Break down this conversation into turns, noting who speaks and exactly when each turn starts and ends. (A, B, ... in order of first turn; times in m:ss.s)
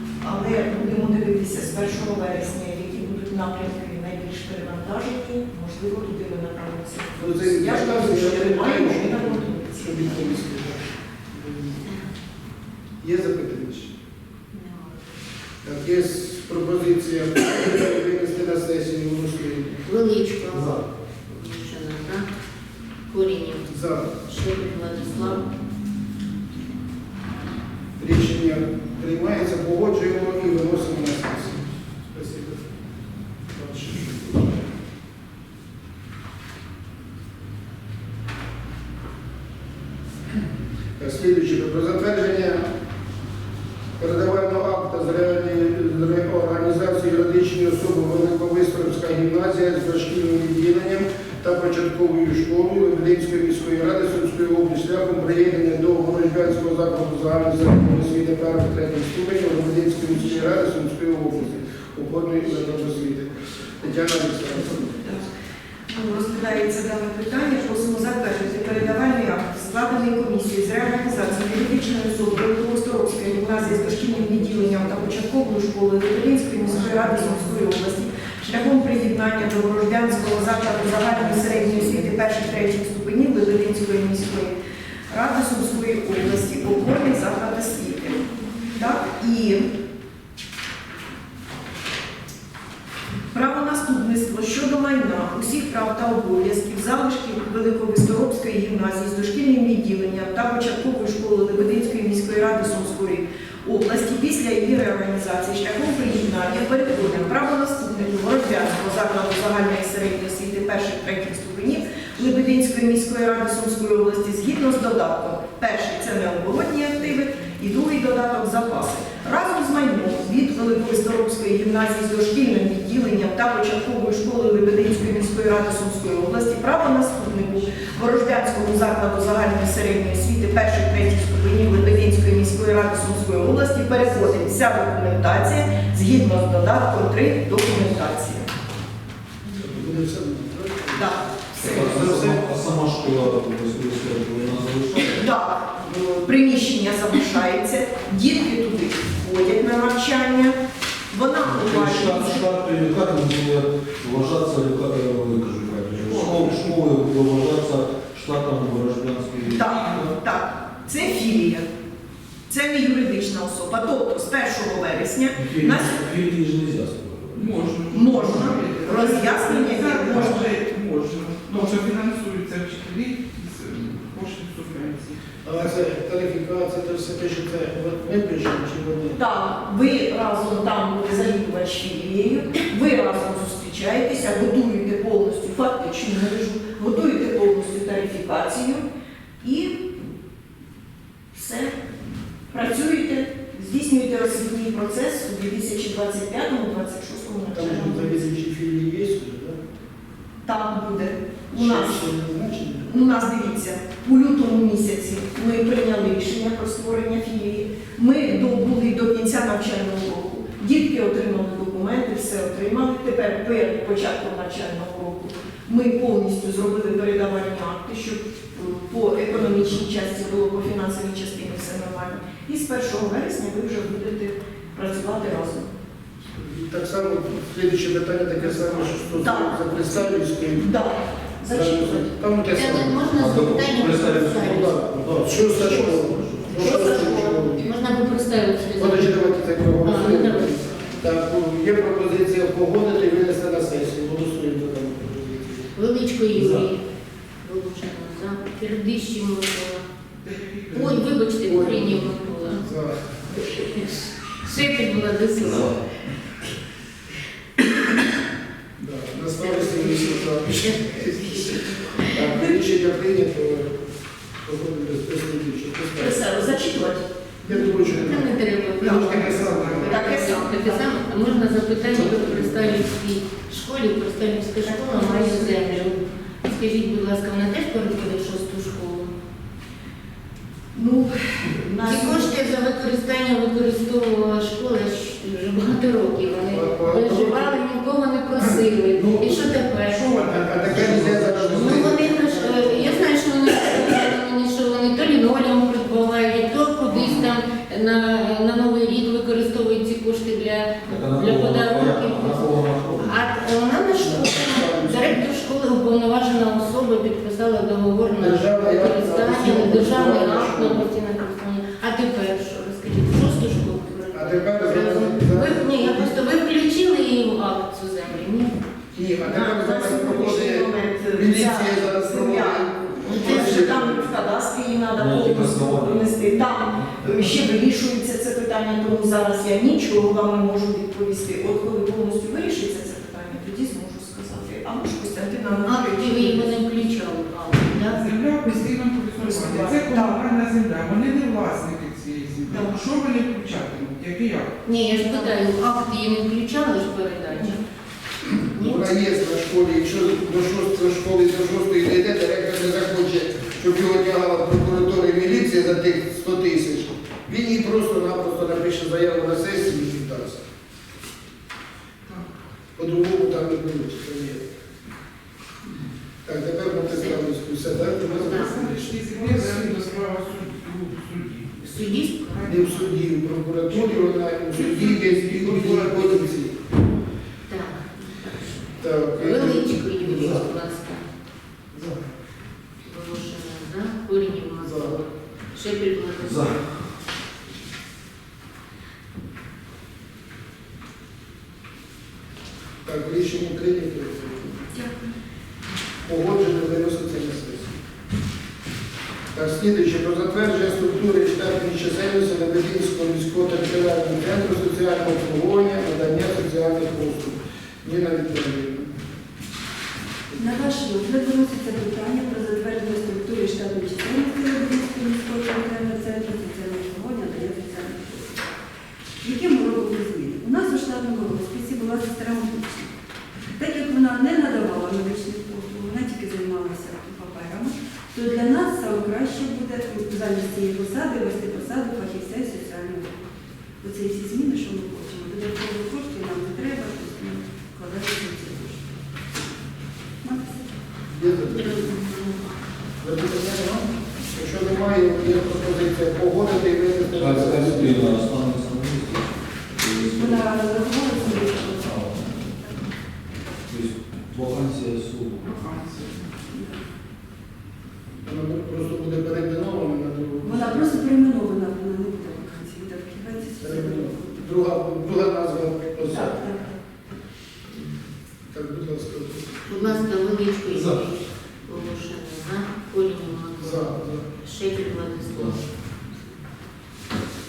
0:00.2-0:10.4 A
0:07.2-0:11.9 B
0:13.0-0:13.9 B
0:14.5-0:15.0 C
0:15.6-0:19.8 B
0:19.8-0:22.2 C
0:20.5-0:20.8 B
0:23.1-0:23.7 C
0:23.7-0:24.1 B
0:24.2-0:25.5 C
0:28.0-0:32.6 B
0:33.5-0:34.7 B
0:41.0-0:42.7 B
0:44.0-1:03.3 B
1:03.8-1:04.8 B
1:04.7-1:05.3 A
1:05.9-1:24.6 A
1:25.1-1:29.7 A
1:33.3-2:18.5 A
2:19.6-2:22.4 B
2:21.0-2:22.1 A
2:21.6-2:25.2 D
2:25.1-2:30.6 A
2:31.1-2:32.4 A
2:31.5-2:40.0 D
2:36.1-2:36.8 E
2:39.4-2:41.7 A
2:39.6-2:40.1 E
2:42.5-2:46.0 A
2:45.3-2:47.6 D
2:47.3-2:55.2 E
2:47.9-2:50.5 A
2:55.4-2:59.2 B
2:59.2-3:08.8 A
3:09.4-3:10.0 A
3:11.3-3:11.8 A
3:12.5-3:18.2 A
3:17.5-3:19.6 B
3:20.4-3:22.1 A
3:21.5-3:22.9 B
3:22.8-3:45.7 A
3:46.4-3:50.6 B
3:49.1-3:52.1 A
3:51.5-3:57.7 B
3:52.5-3:54.8 C
3:53.2-3:56.7 D
3:56.5-3:57.8 A
3:57.6-3:59.2 C
3:58.8-4:05.7 B
3:59.8-4:00.9 C
4:05.8-4:06.8 C
4:06.3-4:06.7 B
4:07.4-4:09.8 C
4:10.2-4:11.2 E
4:10.7-4:12.6 C
4:11.4-4:13.0 B
4:13.4-4:15.8 C
4:15.4-4:15.8 D
4:18.8-4:23.7 B
4:19.4-4:22.3 C
4:24.4-4:26.5 B
4:26.0-4:27.0 A
4:27.4-4:30.3 B
4:27.5-4:39.1 C
4:28.8-4:29.2 A
4:29.4-4:29.7 E
4:29.9-4:31.1 A
4:31.8-4:32.8 B
4:34.6-4:36.0 A
4:40.7-4:42.4 A
4:41.8-5:18.6 C
4:46.5-4:47.6 B
4:48.4-4:53.0 B
4:50.6-4:52.0 D
4:56.9-4:57.3 B
5:00.9-5:03.1 D
5:03.9-5:05.2 B
5:08.2-5:10.9 B
5:14.1-5:16.1 B
5:18.9-5:24.1 B
5:19.2-5:36.6 A
5:23.1-5:23.8 C
5:25.0-5:27.5 D
5:35.6-5:38.0 C
5:37.8-5:44.5 E
5:39.2-5:40.2 A
5:42.5-5:42.8 A
5:44.6-5:47.6 C
5:48.6-6:00.4 B
5:48.6-5:48.9 C
6:02.8-6:04.4 B
6:06.2-6:09.7 B
6:06.9-6:07.2 C
6:08.1-6:09.4 C
6:08.1-6:12.9 E
6:11.6-6:12.9 C
6:12.5-6:16.6 B
6:13.7-6:16.3 E
6:17.5-6:21.0 C
6:18.8-6:20.4 B
6:21.7-6:22.0 B
6:22.8-6:25.0 C
6:24.6-6:25.0 B
6:25.5-6:26.5 C
6:26.2-6:26.6 D
6:32.8-6:34.6 B
6:34.7-6:35.1 A
6:36.0-6:37.8 B
6:39.3-6:48.9 B
6:50.4-6:58.5 F
6:59.2-7:02.9 F
7:03.6-7:13.2 F
7:13.8-7:19.0 F
7:20.2-7:20.7 F
7:21.1-7:21.9 B
7:21.4-7:22.6 C
7:23.0-7:28.2 B
7:27.2-7:30.5 D
7:30.0-7:32.8 F
7:31.6-7:32.7 D
7:33.7-7:35.5 D
7:35.4-7:36.3 E
7:36.5-7:36.8 F
7:38.2-7:41.0 B
7:40.4-7:44.6 F
7:43.6-7:46.6 B
7:46.0-7:46.8 F
7:48.5-7:50.0 B
7:49.7-7:55.6 C
7:50.7-7:51.0 B
7:53.6-7:54.2 B